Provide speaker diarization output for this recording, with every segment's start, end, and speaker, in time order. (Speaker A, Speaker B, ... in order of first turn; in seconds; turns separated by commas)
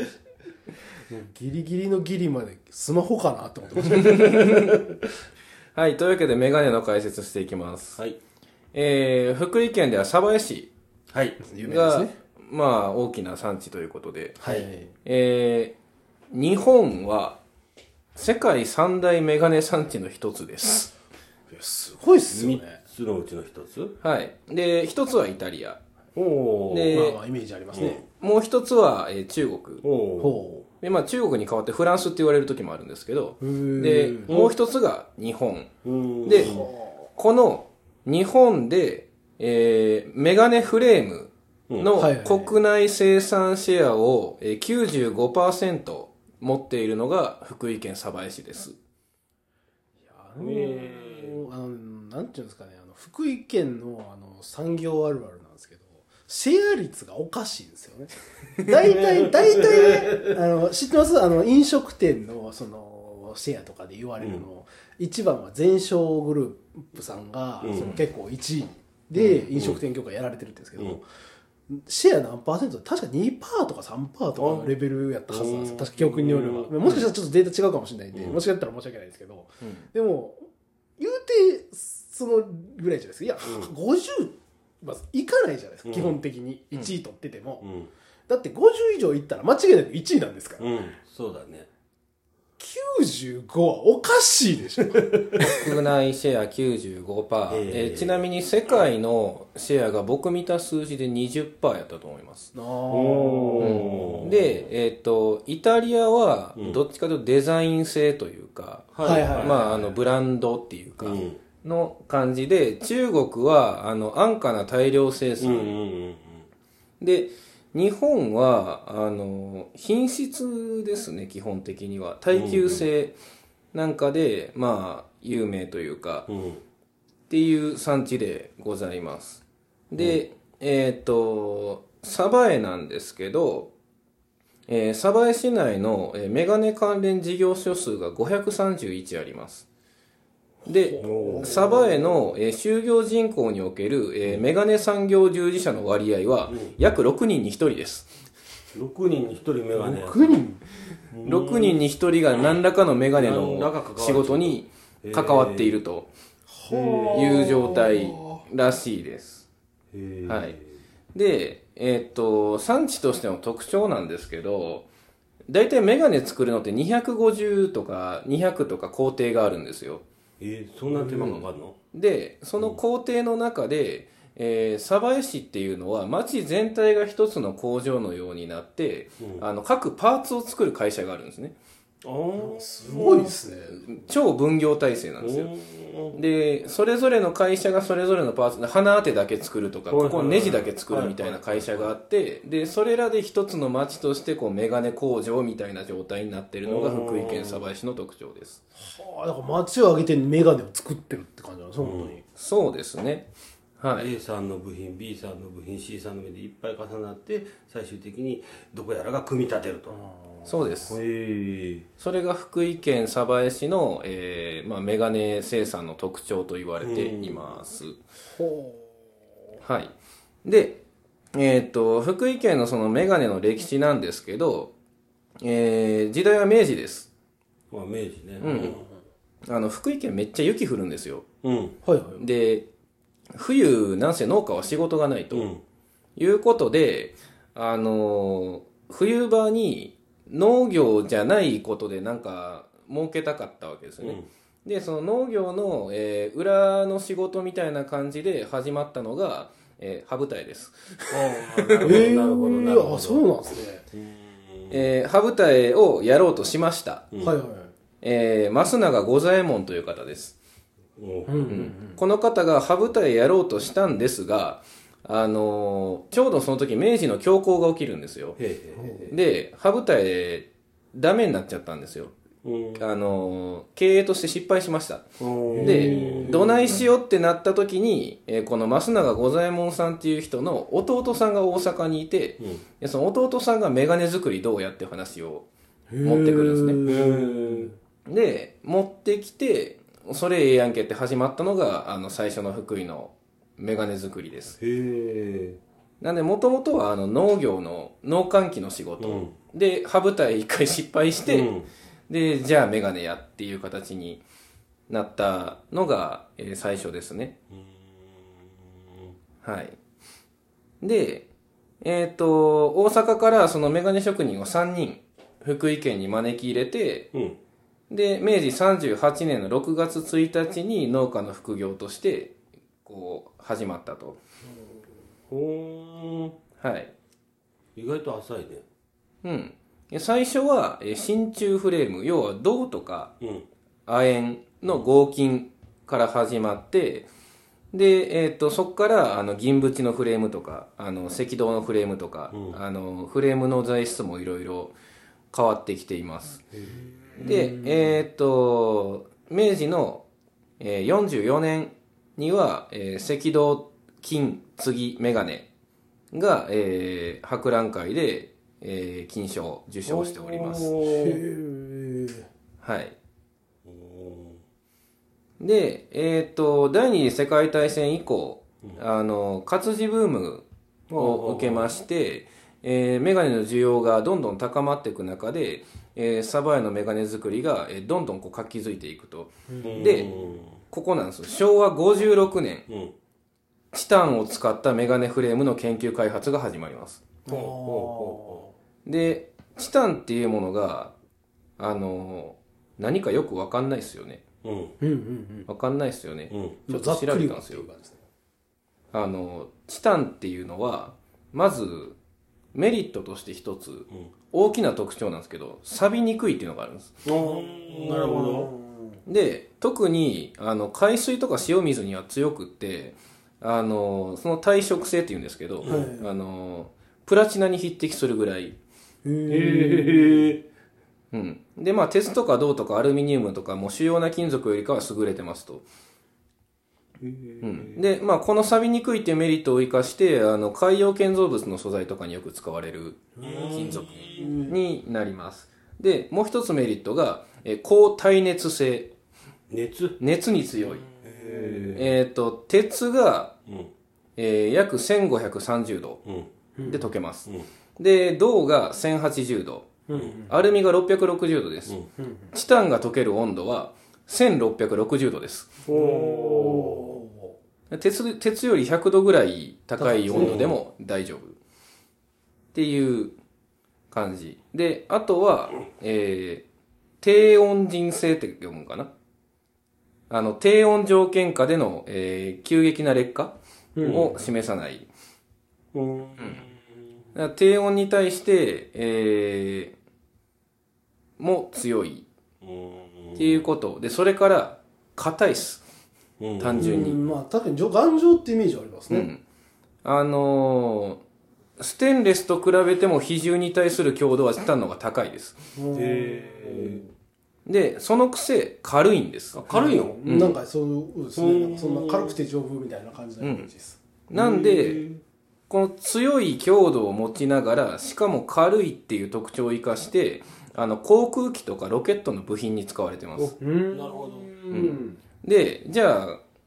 Speaker A: 1.1-4.5, Speaker B: 4.0-4.7, Speaker B: 5.7-8.0, Speaker B: 8.7-10.7, Speaker C: 11.1-11.4, Speaker A: 11.4-12.1, Speaker B: 11.6-14.4, Speaker A: 14.4-14.9, Speaker B: 15.0-15.8, Speaker B: 16.3-17.4, Speaker B: 18.1-20.9, Speaker A: 21.5-22.8, Speaker C: 22.3-23.9, Speaker B: 24.0-25.8, Speaker C: 26.1-27.1, Speaker B: 26.7-27.2, Speaker A: 26.9-28.0, Speaker C: 27.7-28.0, Speaker B: 28.2-29.8, Speaker C: 29.8-30.5, Speaker A: 30.2-30.6, Speaker B: 30.8-35.7, Speaker A: 33.4-34.3, Speaker C: 34.3-34.5, Speaker C: 35.8-36.7, Speaker B: 36.2-36.5, Speaker A: 36.3-37.1, Speaker B: 37.1-48.7, Speaker A: 41.9-42.6, Speaker A: 50.0-71.0, Speaker C: 50.4-51.4, Speaker C: 58.9-60.4, Speaker C: 64.2-64.5, Speaker C: 67.6-68.0, Speaker C: 69.2-69.8, Speaker A: 71.7-80.5, Speaker C: 74.3-76.7, Speaker C: 78.1-78.4, Speaker B: 79.6-79.9, Speaker A: 81.0-87.6, Speaker C: 83.4-83.7, Speaker C: 85.8-86.2, Speaker C: 87.6-87.9, Speaker A: 88.3-90.7, Speaker C: 90.6-91.7, Speaker A: 92.6-95.5, Speaker B: 95.5-102.5, Speaker C: 97.5-98.2, Speaker A: 102.5-104.2, Speaker C: 102.9-104.5, Speaker B: 103.6-115.8, Speaker C: 106.5-106.8, Speaker C: 108.9-109.8, Speaker A: 109.0-109.9, Speaker C: 111.0-111.4, Speaker C: 115.4-116.4, Speaker B: 117.0-123.2, Speaker C: 122.3-122.8, Speaker B: 123.7-126.3, Speaker C: 126.3-126.6, Speaker B: 127.3-133.7, Speaker C: 130.0-130.2, Speaker B: 134.7-139.7, Speaker B: 140.7-148.1, Speaker A: 140.7-141.8, Speaker C: 141.0-142.0, Speaker C: 146.5-146.8, Speaker C: 148.7-150.4, Speaker A: 149.7-150.6, Speaker C: 151.1-151.8, Speaker B: 151.2-156.1, Speaker C: 153.1-155.8, Speaker A: 156.5-158.4, Speaker C: 156.7-157.5, Speaker B: 157.1-159.4, Speaker C: 159.9-160.7, Speaker B: 160.3-160.5, Speaker B: 161.1-164.9, Speaker B: 165.5-170.0, Speaker C: 170.4-171.8, Speaker B: 170.9-181.6, Speaker C: 182.0-183.3, Speaker A: 182.4-183.8, Speaker B: 183.7-185.5, Speaker C: 185.2-186.2, Speaker B: 186.1-198.6, Speaker C: 189.9-191.9, Speaker C: 196.6-197.7, Speaker A: 198.8-202.2, Speaker C: 201.8-202.2, Speaker B: 202.3-204.1, Speaker C: 203.9-210.0, Speaker A: 209.9-210.5, Speaker B: 210.4-211.0, Speaker C: 210.9-211.9, Speaker B: 212.0-218.0, Speaker C: 216.8-217.6, Speaker A: 218.3-219.0, Speaker B: 219.6-220.8, Speaker B: 221.3-224.7, Speaker B: 225.4-227.1, Speaker C: 227.7-228.9, Speaker B: 228.4-228.8, Speaker B: 229.5-231.3, Speaker C: 231.4-231.8, Speaker A: 231.8-232.2, Speaker B: 232.1-232.7, Speaker B: 233.3-235.5, Speaker C: 235.3-235.6, Speaker B: 236.2-252.0, Speaker C: 244.0-244.3, Speaker C: 251.1-253.3, Speaker A: 251.8-253.8, Speaker C: 253.9-254.8, Speaker B: 254.7-257.1, Speaker A: 257.2-257.7, Speaker B: 258.0-260.4, Speaker C: 261.0-261.6, Speaker A: 261.3-262.0, Speaker B: 261.5-268.4, Speaker C: 268.4-269.1, Speaker A: 268.8-269.1, Speaker B: 269.1-272.1, Speaker C: 272.4-272.8, Speaker B: 272.8-285.5, Speaker C: 275.2-276.4, Speaker A: 275.5-276.8, Speaker A: 285.9-287.7, Speaker B: 286.0-286.8, Speaker C: 286.8-287.7, Speaker B: 288.1-294.6, Speaker C: 294.6-295.6, Speaker B: 296.0-301.5, Speaker C: 299.0-299.4, Speaker C: 301.2-301.7, Speaker B: 302.1-304.2, Speaker B: 304.9-307.4, Speaker C: 307.5-308.4, Speaker B: 309.4-309.8, Speaker B: 310.8-311.3, Speaker B: 311.8-317.1, Speaker C: 317.1-317.4, Speaker B: 317.9-324.2, Speaker C: 325.3-326.4, Speaker B: 326.6-326.9, Speaker C: 327.8-328.6, Speaker B: 329.2-333.1, Speaker C: 333.2-333.5, Speaker B: 333.9-337.1, Speaker B: 337.7-344.7, Speaker C: 342.3-342.6, Speaker B: 345.3-346.4, Speaker C: 346.5-347.5, Speaker B: 347.2-350.0, Speaker A: 347.2-347.9, Speaker B: 350.6-355.5, Speaker B: 356.1-360.7, Speaker C: 359.9-361.2, Speaker A: 360.8-362.2, Speaker B: 362.6-362.9, Speaker C: 363.6-364.4, Speaker B: 365.4-380.1, Speaker C: 370.9-371.7, Speaker A: 379.5-380.2, Speaker C: 379.6-380.6, Speaker B: 380.7-382.6, Speaker C: 382.7-382.9, Speaker B: 383.7-387.0, Speaker C: 387.3-388.5, Speaker A: 387.3-388.5, Speaker B: 388.9-390.9, Speaker B: 391.6-394.2, Speaker C: 394.4-394.8, Speaker A: 394.8-395.5, Speaker B: 395.5-397.7, Speaker C: 396.3-396.6, Speaker A: 396.7-398.0, Speaker B: 398.9-402.0, Speaker B: 402.5-407.0, Speaker C: 407.0-408.5, Speaker A: 407.2-409.0, Speaker B: 409.1-418.6, Speaker C: 415.6-415.9, Speaker A: 415.6-416.1, Speaker A: 419.0-420.3, Speaker C: 419.3-420.4, Speaker B: 421.1-425.6, Speaker C: 427.0-427.9, Speaker B: 427.4-438.9, Speaker A: 433.1-434.5, Speaker C: 433.2-434.4, Speaker C: 439.5-440.0, Speaker B: 440.0-440.9, Speaker A: 440.9-441.6, Speaker C: 441.0-442.0, Speaker B: 441.7-443.4, Speaker C: 443.5-443.7, Speaker B: 444.2-446.0, Speaker C: 446.0-446.3, Speaker A: 446.6-446.9, Speaker B: 446.6-449.7, Speaker A: 449.9-450.4, Speaker C: 449.9-450.2, Speaker B: 450.3-451.8, Speaker A: 452.0-452.3, Speaker B: 452.3-455.5, Speaker C: 455.6-457.0, Speaker A: 455.7-457.4, Speaker B: 457.7-461.4, Speaker A: 459.8-460.4, Speaker C: 460.1-460.6, Speaker B: 462.5-463.1, Speaker B: 463.9-466.4, Speaker B: 467.0-468.9, Speaker B: 470.1-474.9, Speaker A: 473.8-474.1, Speaker C: 473.8-474.2, Speaker C: 475.7-476.6, Speaker B: 477.1-479.8, Speaker B: 481.2-482.1, Speaker C: 482.4-483.4, Speaker B: 483.2-485.6, Speaker C: 486.2-486.9, Speaker B: 486.4-487.0, Speaker A: 486.6-489.1, Speaker B: 488.9-489.2, Speaker B: 489.8-491.0, Speaker B: 491.6-495.4, Speaker A: 495.6-496.9, Speaker C: 495.7-496.8, Speaker B: 497.4-499.4, Speaker C: 499.3-500.3, Speaker A: 499.5-503.8, Speaker B: 500.0-500.4, Speaker C: 501.1-502.2, Speaker B: 503.2-503.5, Speaker B: 504.1-504.8, Speaker C: 504.1-505.0, Speaker B: 505.5-513.4, Speaker C: 513.2-514.3, Speaker A: 513.4-515.0, Speaker B: 514.5-516.2